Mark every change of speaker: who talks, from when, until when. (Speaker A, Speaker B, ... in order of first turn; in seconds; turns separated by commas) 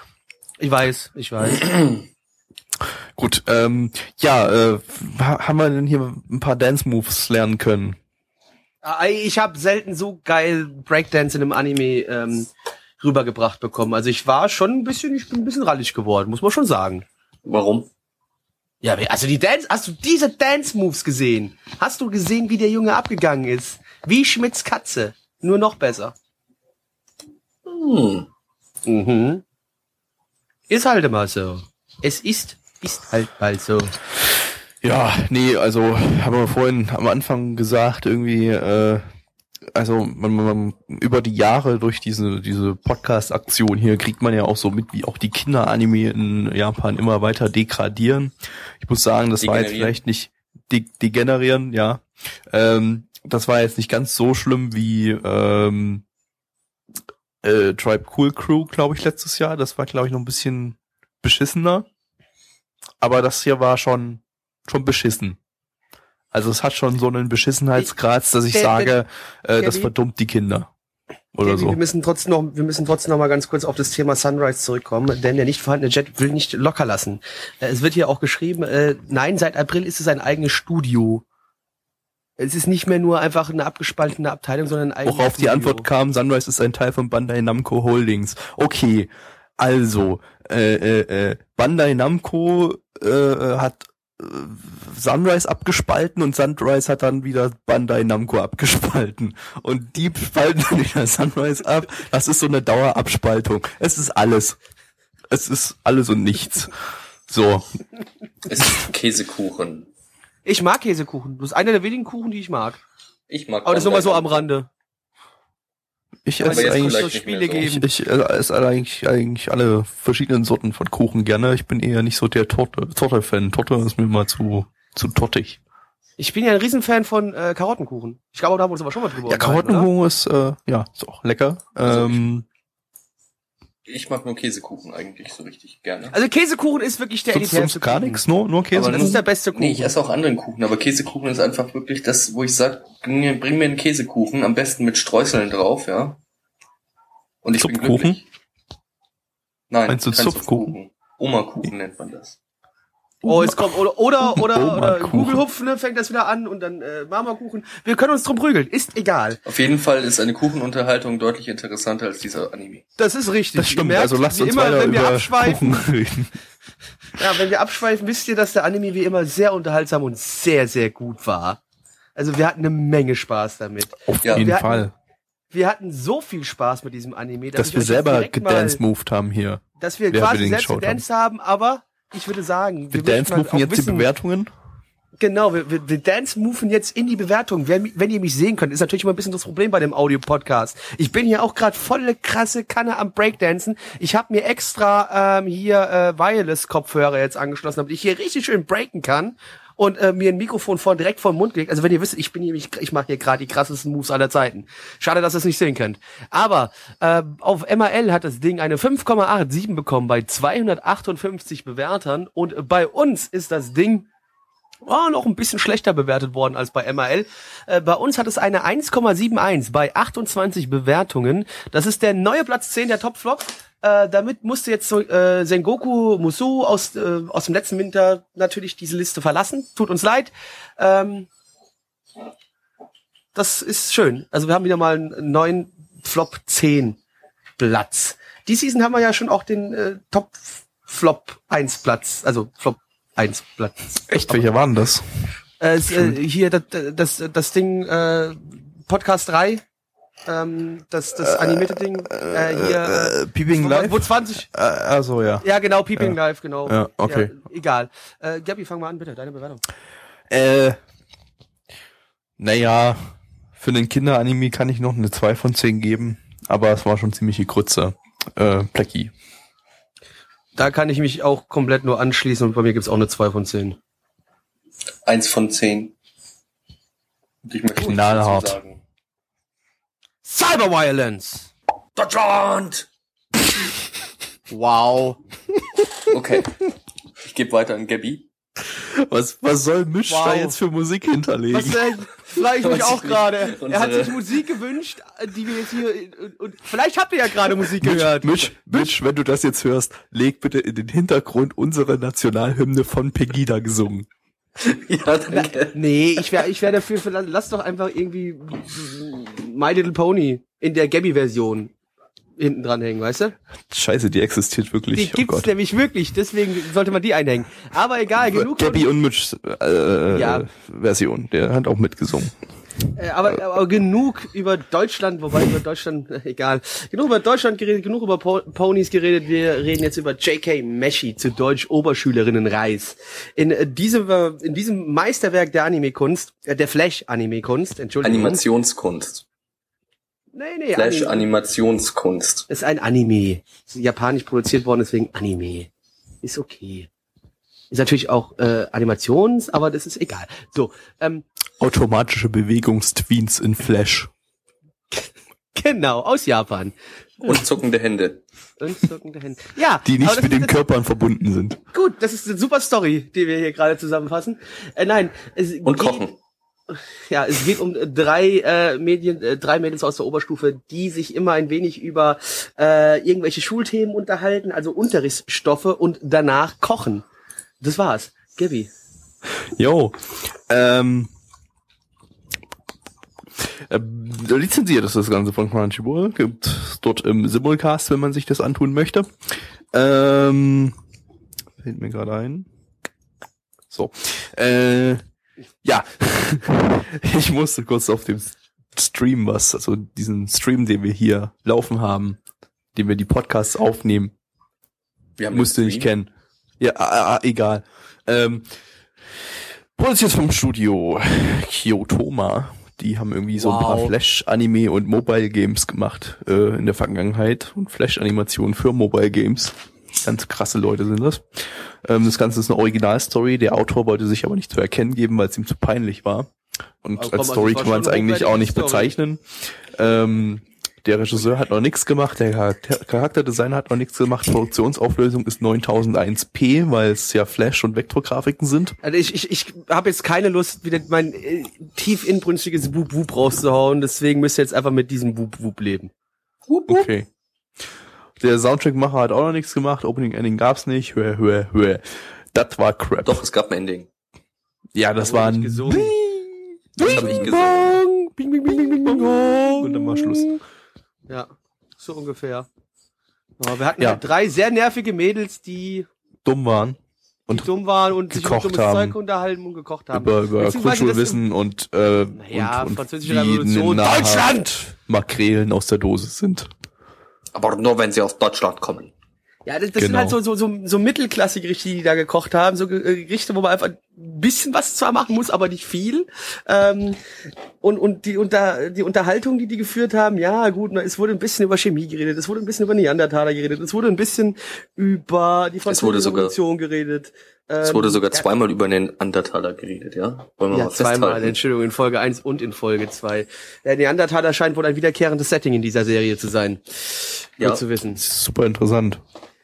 Speaker A: 0.6-1.7, Speaker B: 3.1-8.0, Speaker A: 8.8-12.5, Speaker A: 13.0-17.0, Speaker C: 17.4-17.9, Speaker A: 18.8-26.1, Speaker C: 27.6-28.3, Speaker A: 28.9-29.4, Speaker A: 30.7-33.9, Speaker B: 34.8-39.0, Speaker B: 39.7-56.0, Speaker C: 49.4-50.0, Speaker B: 57.4-61.9, Speaker B: 63.0-65.4, Speaker B: 66.3-70.7, Speaker A: 68.5-68.9, Speaker A: 69.6-69.9, Speaker B: 71.3-71.8, Speaker A: 71.4-81.2, Speaker A: 82.4-85.9, Speaker B: 85.0-104.6, Speaker B: 105.3-106.7, Speaker B: 107.3-107.8, Speaker C: 108.5-109.9, Speaker A: 110.5-112.8, Speaker C: 113.3-114.4, Speaker A: 113.7-114.7, Speaker B: 116.2-117.1, Speaker A: 116.4-117.8, Speaker C: 116.4-117.8, Speaker B: 117.6-125.6, Speaker A: 126.2-129.9, Speaker B: 129.2-132.4, Speaker C: 131.8-132.2, Speaker C: 133.9-136.1, Speaker A: 136.1-138.2, Speaker B: 137.3-139.2, Speaker C: 138.7-146.2, Speaker A: 138.8-139.9, Speaker C: 147.4-148.2, Speaker B: 147.6-148.2, Speaker C: 149.7-152.3, Speaker B: 149.9-150.7, Speaker B: 153.2-155.4, Speaker A: 153.2-159.4, Speaker C: 159.4-162.8, Speaker A: 163.0-165.7, Speaker B: 163.6-166.3, Speaker A: 167.2-171.6, Speaker A: 172.2-174.9, Speaker B: 174.1-174.9, Speaker A: 175.5-178.8, Speaker B: 177.6-181.0, Speaker A: 179.8-184.1, Speaker B: 182.9-184.5, Speaker A: 185.2-214.1, Speaker A: 214.8-231.3, Speaker A: 233.3-237.0, Speaker A: 237.6-244.5, Speaker B: 244.1-245.3, Speaker A: 245.6-249.6, Speaker B: 245.9-246.2, Speaker A: 250.2-254.5, Speaker B: 251.2-255.4, Speaker A: 255.4-259.6, Speaker B: 255.9-257.3, Speaker B: 260.3-260.8, Speaker B: 262.4-269.1, Speaker A: 270.6-273.8, Speaker C: 275.1-275.9, Speaker C: 277.4-278.8, Speaker B: 277.8-278.6, Speaker A: 280.2-281.5, Speaker C: 281.9-282.9, Speaker A: 284.5-285.2, Speaker C: 286.1-286.6, Speaker C: 287.2-288.2, Speaker B: 288.7-291.9, Speaker A: 290.1-290.6, Speaker A: 291.5-298.9, Speaker C: 292.6-294.5, Speaker B: 297.8-304.1, Speaker C: 304.6-305.7, Speaker A: 305.3-311.7, Speaker A: 312.4-313.3, Speaker B: 313.7-315.5, Speaker A: 314.9-318.9, Speaker B: 318.2-322.3, Speaker A: 320.1-320.4, Speaker A: 322.9-338.4, Speaker C: 338.0-339.2, Speaker A: 340.3-341.2, Speaker C: 340.7-342.5, Speaker A: 342.5-345.7, Speaker A: 346.2-346.9, Speaker A: 347.7-351.2, Speaker B: 351.6-354.1, Speaker A: 354.9-356.7, Speaker C: 357.2-358.2, Speaker A: 358.6-360.6, Speaker B: 359.8-361.6, Speaker A: 361.7-366.0, Speaker C: 365.6-366.1, Speaker A: 366.7-377.1, Speaker A: 377.6-378.7, Speaker B: 379.6-381.1, Speaker B: 383.4-389.1, Speaker B: 389.7-390.7, Speaker B: 391.6-392.5, Speaker B: 393.7-395.0, Speaker B: 395.6-402.2, Speaker B: 402.7-404.1, Speaker C: 405.2-405.9, Speaker B: 405.3-408.5, Speaker B: 409.8-426.3, Speaker A: 413.3-413.9, Speaker B: 426.8-438.8, Speaker A: 427.0-428.9, Speaker A: 438.8-445.9, Speaker C: 446.5-446.9, Speaker B: 446.7-447.1, Speaker B: 448.2-453.2, Speaker C: 453.0-453.9, Speaker B: 454.7-457.8, Speaker A: 455.0-456.0, Speaker A: 456.8-460.4, Speaker C: 456.8-457.8, Speaker B: 458.5-460.4, Speaker A: 461.1-462.5, Speaker A: 463.4-465.9, Speaker B: 466.2-467.5, Speaker A: 467.3-471.2, Speaker B: 468.1-468.9, Speaker B: 469.9-476.5, Speaker A: 472.1-474.5, Speaker C: 477.3-478.9, Speaker A: 479.4-487.0, Speaker B: 479.8-480.1, Speaker A: 487.6-498.2, Speaker C: 495.6-496.4, Speaker C: 497.6-501.3, Speaker A: 500.5-508.0, Speaker B: 507.9-509.0